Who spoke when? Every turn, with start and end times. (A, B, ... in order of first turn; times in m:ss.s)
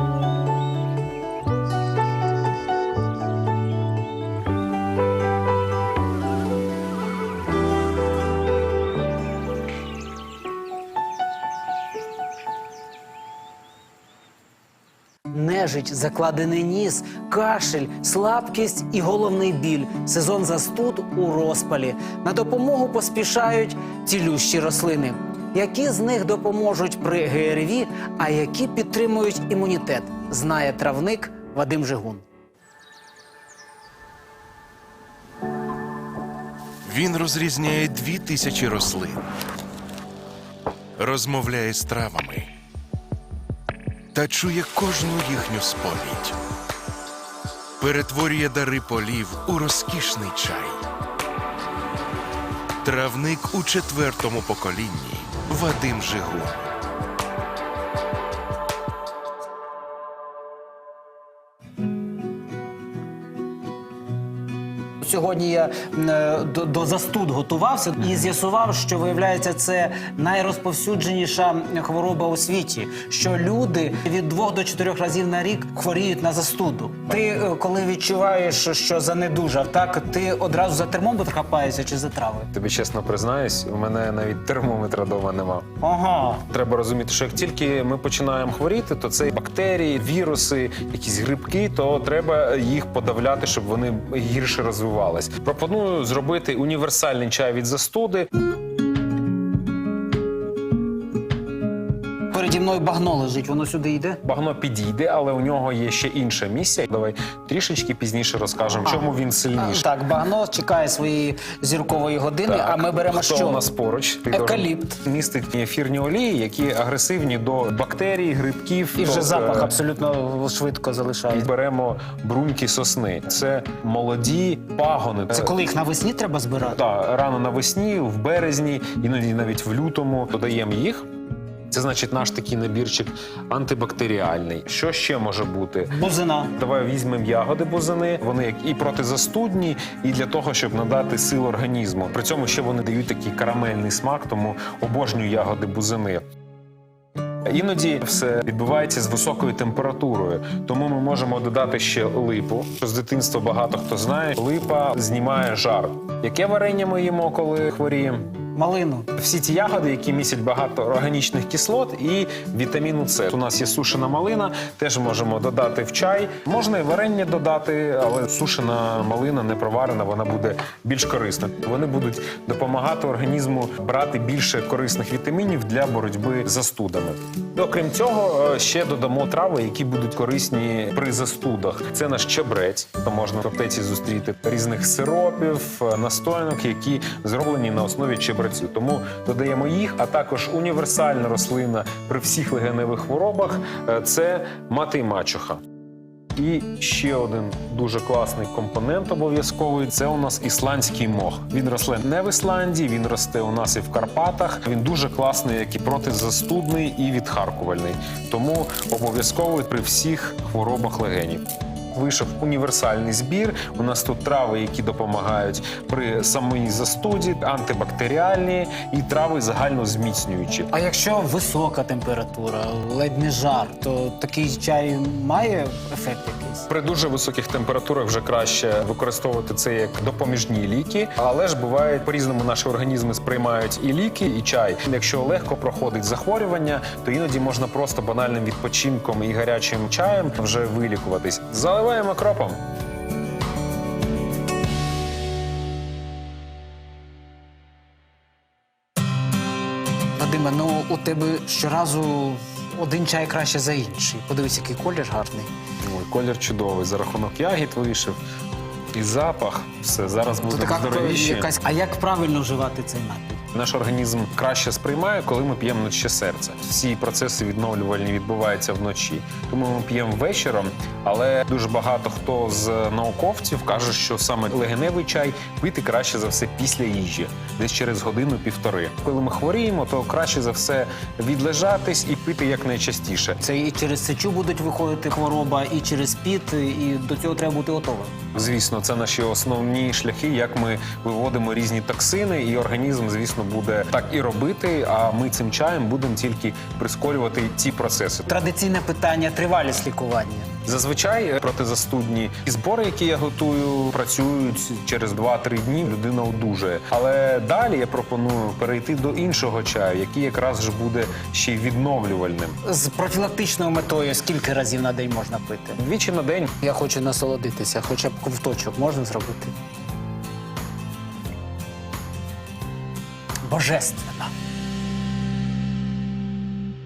0:15.3-0:32.2 A
0:36.8-0:39.2 B
0:41.0-0:42.5 B
0:44.1-0:46.4 B
0:47.8-0:50.8 B
0:52.8-0:56.7 B
1:05.0-1:22.5 A
1:22.5-1:25.7 C
1:25.8-1:26.4 A
1:26.5-1:38.3 C
1:42.3-1:44.2 A
1:44.2-1:49.9 C
1:48.8-1:53.6 A
1:52.4-1:59.7 C
1:54.3-1:55.0 A
1:59.0-2:01.5 A
2:01.3-2:05.6 C
2:05.3-2:06.8 A
2:06.6-2:11.0 C
2:11.7-2:15.9 C
2:15.9-2:16.5 A
2:16.6-2:26.2 C
2:27.4-2:38.3 C
2:38.5-2:39.1 A
2:39.1-3:15.6 C
3:16.4-3:40.7 C
3:40.7-3:46.7 A
3:46.7-4:02.6 C
4:10.2-4:15.5 A
4:15.8-4:18.2 C
4:18.9-4:21.5 C
4:20.4-4:23.4 A
4:23.5-4:43.4 C
4:43.4-4:48.2 A
4:48.3-4:58.3 C
4:58.3-5:00.5 A
5:00.6-5:12.6 C
5:12.6-5:15.8 A
5:15.8-5:16.5 C
5:16.6-5:19.5 A
5:23.4-5:24.3 A